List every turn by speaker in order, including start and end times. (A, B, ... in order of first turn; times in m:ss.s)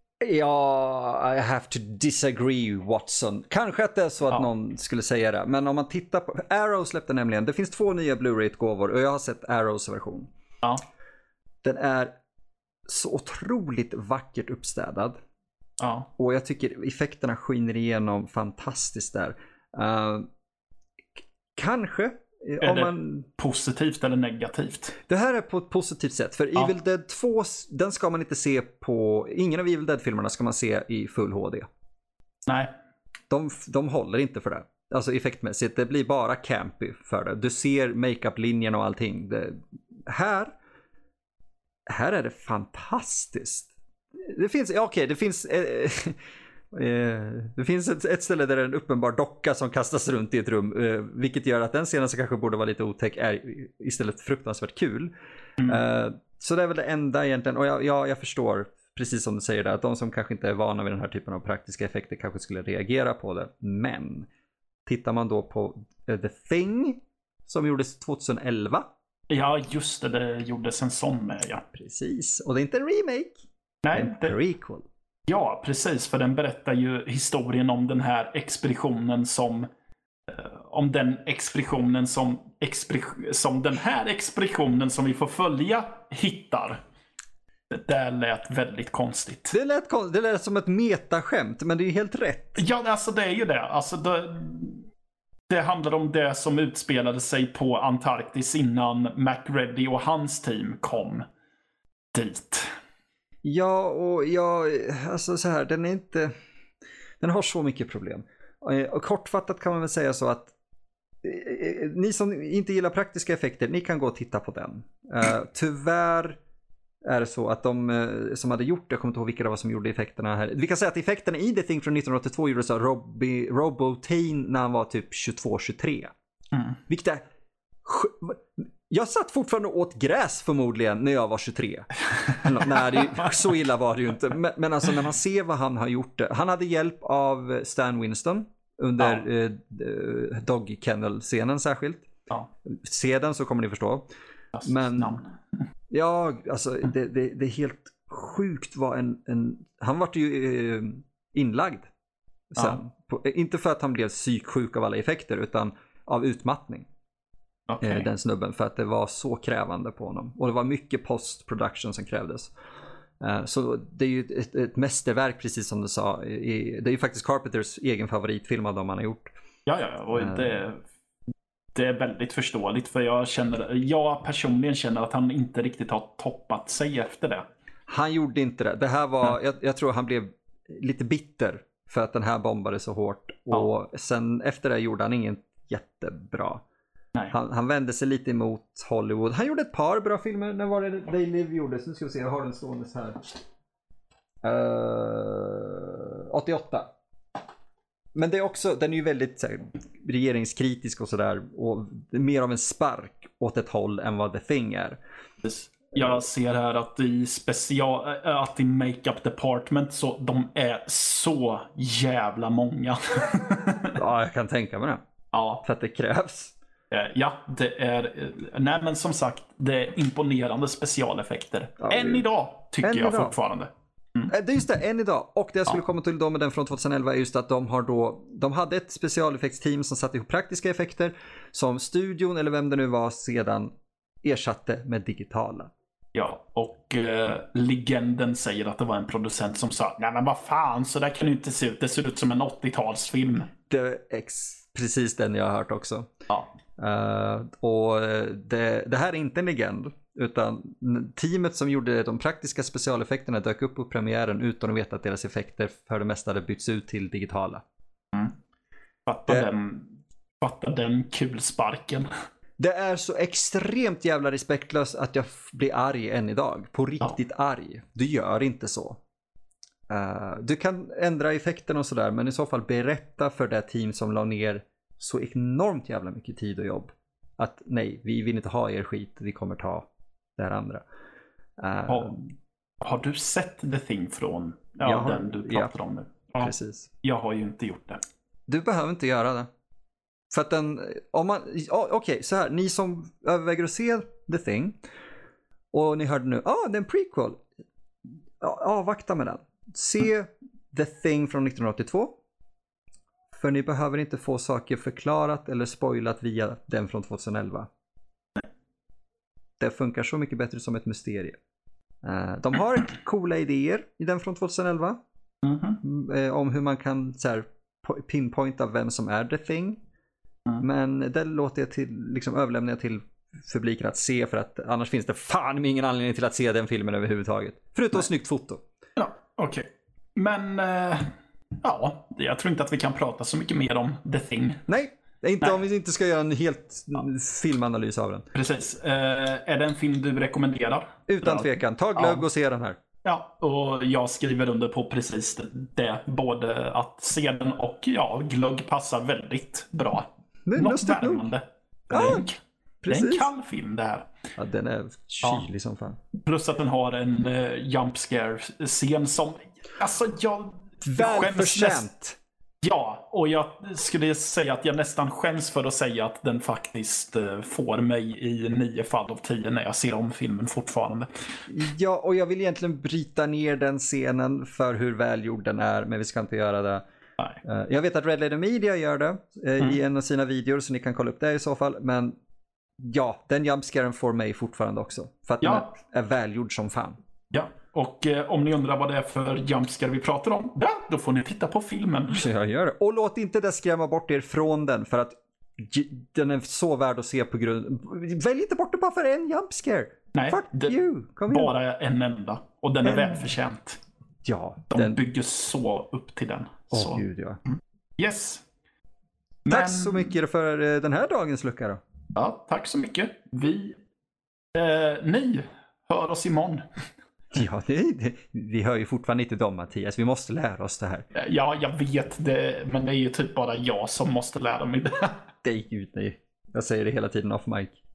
0:00.2-0:10.3 A
0:11.6-0:12.1 A
0:12.9-0:15.2 A
0:15.8-0:16.1 B
0:16.2-0:20.3 A
0:21.6-0:23.3 A
0:22.6-0:25.0 B
0:25.1-0:31.6 A
0:33.3-0:40.5 A
0:41.9-0:46.2 A
0:46.7-0:55.1 A
0:55.6-1:04.3 A
1:04.8-1:08.8 A
1:09.3-1:11.6 B
1:11.7-1:13.4 A
1:13.8-1:14.4 B
1:13.9-1:14.8 A
1:15.3-1:19.7 B
1:20.3-1:26.8 B
1:27.7-1:29.5 B
1:29.5-1:32.6 A
1:32.6-1:34.8 B
1:35.5-1:41.2 B
1:42.1-1:42.7 B
1:43.4-1:46.3 A
1:47.2-1:50.5 A
1:51.2-1:56.4 A
1:57.0-2:06.1 A
2:06.5-2:06.8 B
2:06.9-2:07.2 A
2:07.8-2:22.1 A
2:12.8-2:13.1 B
2:19.0-2:19.2 B
2:22.6-2:24.0 A
2:24.5-2:25.3 B
2:24.6-2:25.2 A
2:25.9-2:31.9 A
2:32.5-2:36.9 A
2:37.7-2:38.1 B
2:37.8-2:42.5 A
2:43.2-2:49.3 A
2:49.6-2:50.8 B
2:50.2-2:50.6 A
2:51.7-2:57.4 B
2:57.9-3:06.6 A
3:07.3-3:13.4 A
3:14.4-3:16.9 A
3:18.1-3:25.0 A
3:25.4-3:34.0 B
3:34.0-3:35.0 A
3:35.3-3:35.6 B
3:35.6-3:36.5 A
3:36.9-3:44.3 B
3:41.8-3:42.2 A
3:42.8-3:43.4 A
3:44.3-3:53.7 A
3:54.2-3:55.7 A
3:56.1-4:03.5 B
4:03.7-4:06.1 A
4:06.8-4:17.6 A
4:19.0-4:22.1 B
4:22.6-4:29.0 A
4:29.9-4:40.8 A
4:41.6-4:42.1 A
4:41.9-4:48.0 B
4:44.8-4:45.7 A
4:46.4-4:46.9 A
4:48.5-4:49.5 A
4:50.3-4:54.8 A
4:55.7-4:57.4 A
4:58.4-5:02.1 A
5:03.3-5:07.7 A
5:09.6-5:11.4 A
5:12.0-5:15.0 A
5:15.4-5:15.8 B
5:15.8-5:19.8 A
5:20.6-5:28.6 A
5:29.0-5:31.1 B
5:31.6-5:34.7 B
5:34.7-5:38.2 A
5:38.3-5:42.2 B
5:41.1-5:42.8 A
5:43.0-5:52.4 B
5:50.4-5:51.3 A
5:51.9-5:52.2 A
5:52.8-5:53.3 A
5:52.9-5:54.1 B
5:54.4-5:56.0 A
5:56.2-6:01.9 B
6:00.8-6:02.2 A
6:02.6-6:11.4 B
6:11.5-6:16.8 A
6:17.4-6:22.2 A
6:22.8-6:27.0 A
6:25.4-6:25.7 B
6:27.3-6:32.3 B
6:32.1-6:41.5 A
6:40.1-6:40.8 B
6:41.3-6:43.8 B
6:42.8-6:43.3 A
6:44.2-6:45.0 A
6:44.7-6:48.4 B
6:46.7-6:47.4 A
6:49.4-6:50.1 B
6:49.5-6:51.8 A
6:52.1-6:53.8 B
6:54.5-6:56.6 B
6:57.3-7:01.0 A
7:01.1-7:05.2 B
7:05.4-7:07.8 A